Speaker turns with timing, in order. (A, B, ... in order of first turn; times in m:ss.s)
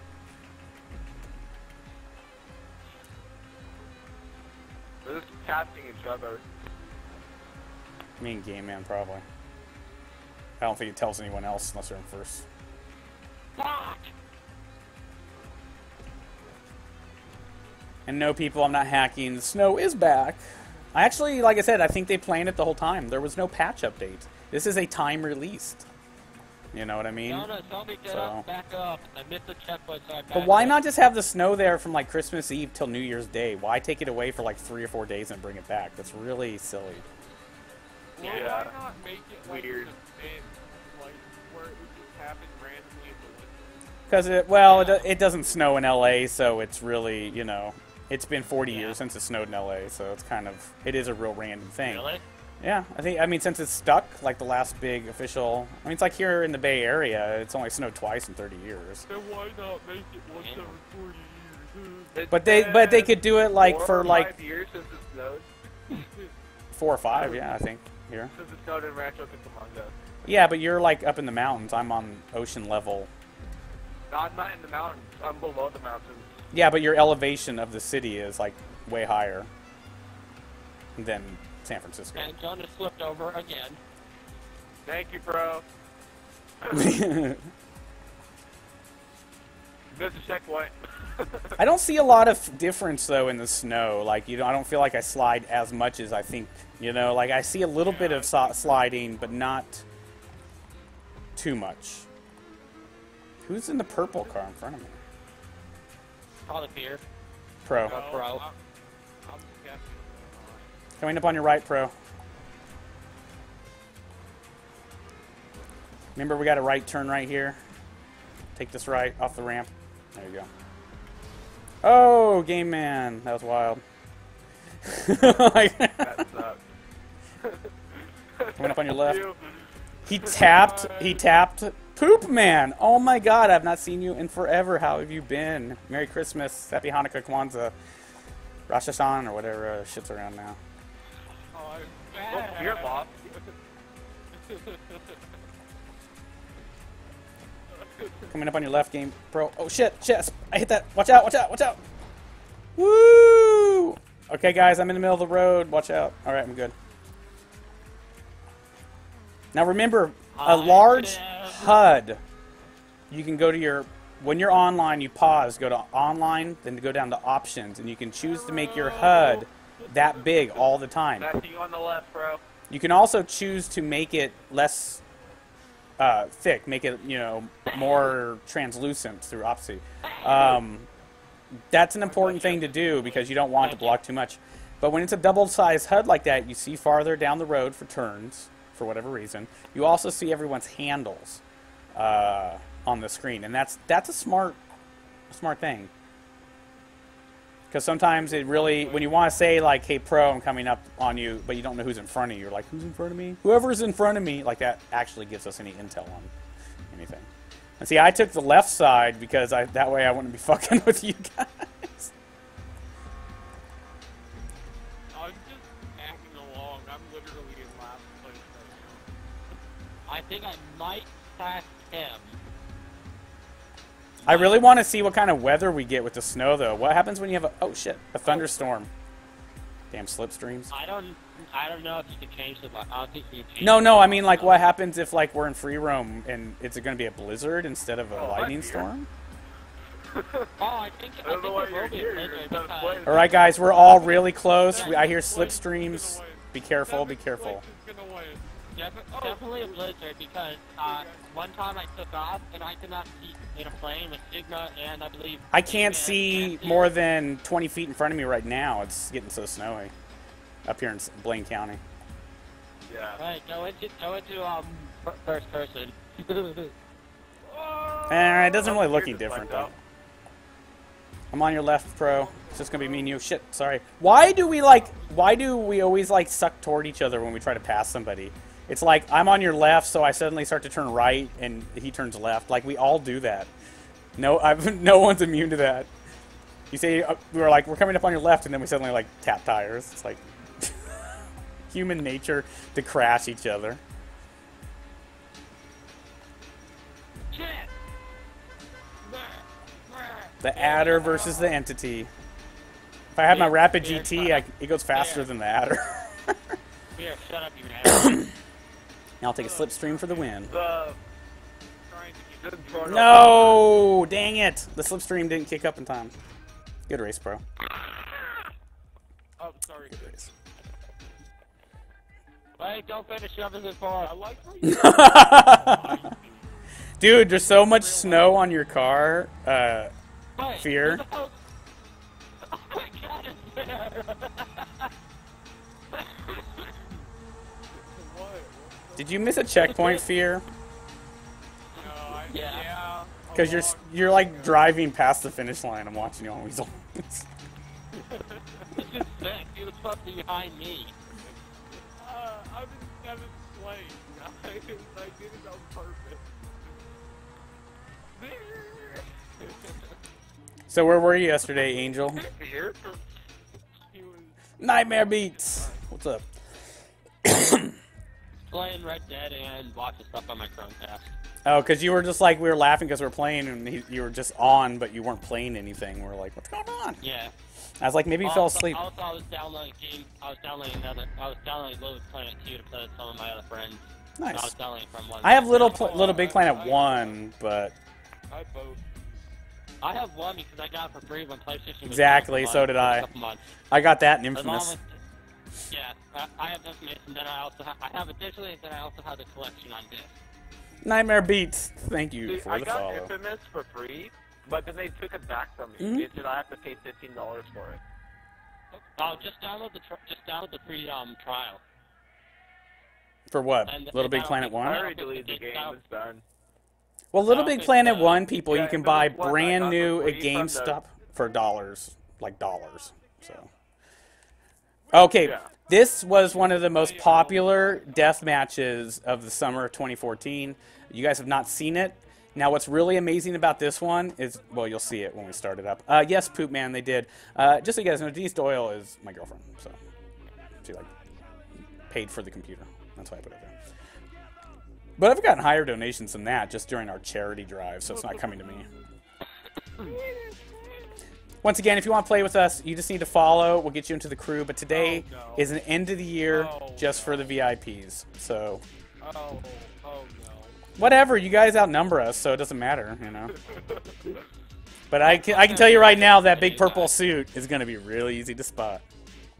0:05.0-0:06.4 A
0:08.2-0:09.2 B
0:10.6-0:12.4 B
0:13.6-0:14.1 C
0:18.1-0:25.9 B
0:26.7-0:27.5 B
0:27.2-0:30.8 C
0:28.1-0:28.4 B
0:30.3-0:37.0 B
0:38.1-0:43.8 D
0:38.2-0:38.8 A
0:39.4-0:39.9 A
0:44.1-0:52.1 B
0:44.5-0:45.1 C
0:48.6-0:49.0 C
0:51.8-0:52.2 C
0:52.6-0:59.1 B
0:59.0-1:02.2 D
1:00.3-1:00.8 C
1:02.1-1:05.5 A
1:02.3-1:04.3 B
1:05.9-1:06.3 D
1:06.7-1:08.3 B
1:07.1-1:07.4 A
1:08.3-1:09.9 A
1:10.2-1:13.1 B
1:14.1-1:16.3 A
1:16.5-1:19.5 B
1:21.0-1:22.4 B
1:22.1-1:23.8 C
1:24.8-1:25.6 A
1:26.7-1:27.5 B
1:29.9-1:31.6 A
1:31.6-1:39.8 B
1:37.8-1:39.3 D
1:41.4-1:42.1 B
1:43.4-1:45.0 B
1:46.4-1:47.0 C
1:47.6-1:48.0 B
1:47.8-1:48.6 D
1:47.8-1:48.4 C
1:49.2-1:50.7 D
1:51.0-1:51.9 B
1:56.2-1:57.6 B
1:58.6-2:00.5 B
2:01.8-2:03.8 B
2:04.8-2:06.2 B
2:05.2-2:06.6 A
2:08.4-2:09.5 A
2:08.6-2:09.2 B
2:10.0-2:17.7 B
2:10.4-2:11.2 D
2:18.7-2:20.6 B
2:21.5-2:23.5 D
2:22.2-2:22.5 C
2:22.3-2:23.1 A
2:24.3-2:25.2 D
2:27.8-2:28.3 D
2:28.3-2:31.8 B
2:32.8-2:36.7 B
2:39.5-2:42.2 B
2:40.3-2:41.9 C
2:43.1-2:51.3 B
2:48.2-2:50.8 D
2:51.2-2:52.4 A
2:52.7-2:55.0 B
2:56.0-3:00.9 B
3:00.2-3:00.5 C
3:01.7-3:11.4 B
3:02.3-3:02.9 D
3:02.8-3:04.0 C
3:11.9-3:14.6 B
3:15.3-3:15.9 B
3:17.7-3:26.3 B
3:18.1-3:19.5 D
3:26.9-3:27.3 B
3:27.8-3:32.1 B
3:35.1-3:39.1 D
3:40.1-3:42.4 C
3:44.2-3:44.6 C
3:44.2-3:48.9 B
3:49.9-3:50.7 B
3:50.7-3:54.7 C
3:53.6-3:59.1 B
3:58.1-3:58.9 A
4:00.1-4:00.5 A
4:00.6-4:03.3 C
4:01.2-4:03.3 A
4:03.0-4:07.6 B
4:03.8-4:08.5 D
4:04.7-4:05.3 C
4:08.7-4:16.9 C
4:09.1-4:10.0 D
4:10.8-4:11.4 D
4:15.5-4:19.9 B
4:20.6-4:21.8 B
4:22.9-4:23.2 A
4:23.2-4:26.7 C
4:27.5-4:29.7 A
4:28.1-4:29.7 B
4:31.3-4:43.5 B
4:32.0-4:33.2 D
4:44.2-4:45.9 B
4:46.7-4:53.8 B
4:57.3-4:57.7 C
4:59.1-5:00.0 D
5:00.2-5:01.4 C
5:00.4-5:02.1 B
5:00.6-5:01.3 D
5:03.1-5:06.4 B
5:03.3-5:05.3 C
5:06.9-5:08.2 C
5:07.9-5:08.3 B
5:09.2-5:10.5 B
5:09.3-5:10.7 D
5:10.5-5:11.0 A
5:11.8-5:13.6 D
5:12.4-5:13.7 A
5:12.8-5:16.1 B
5:16.9-5:17.4 B
5:19.4-5:20.3 D
5:22.6-5:24.2 C
5:24.0-5:26.6 D
5:24.6-5:26.0 B
5:27.0-5:29.9 B
5:27.3-5:28.1 C
5:30.4-5:31.4 C
5:30.6-5:31.0 B
5:32.5-5:34.9 C
5:37.7-5:39.8 D
5:39.0-5:40.4 B
5:41.8-5:44.7 D
5:42.3-5:42.7 C
5:43.3-5:47.3 B
5:47.9-5:48.8 D
5:48.7-5:50.9 C
5:51.1-5:56.3 D
5:58.1-5:59.7 D
6:00.7-6:02.2 B
6:02.1-6:03.0 C
6:03.9-6:05.8 D
6:04.6-6:06.2 B
6:07.2-6:07.8 B
6:08.5-6:11.1 C
6:11.4-6:17.0 B
6:17.0-6:17.3 C
6:17.8-6:18.8 B
6:18.2-6:26.2 C
6:24.2-6:24.5 B
6:25.2-6:27.7 B
6:25.5-6:27.2 D
6:28.3-6:28.8 D
6:29.8-6:33.4 C
6:31.8-6:33.0 B
6:33.7-6:34.8 B
6:34.3-6:35.0 C
6:35.7-6:40.1 C
6:40.8-6:43.1 B
6:42.2-6:47.8 A
6:45.8-6:46.1 B
6:48.8-6:51.6 C
6:53.3-6:54.9 B
6:53.6-6:55.8 C
6:54.6-6:56.2 A
6:57.1-7:03.5 B
6:57.2-6:58.3 C
6:58.4-7:00.8 A
7:04.9-7:19.8 B
7:05.2-7:05.5 A
7:06.6-7:07.8 D
7:20.6-7:20.9 B
7:21.9-7:23.5 B
7:25.0-7:28.7 B
7:27.9-7:28.6 D
7:29.8-7:30.8 D
7:31.4-7:38.6 B
7:34.7-7:35.5 D
7:36.2-7:37.4 D
7:39.0-7:40.6 D
7:40.8-7:43.4 B
7:43.7-7:44.2 D
7:44.9-7:48.8 B
7:45.0-7:47.0 C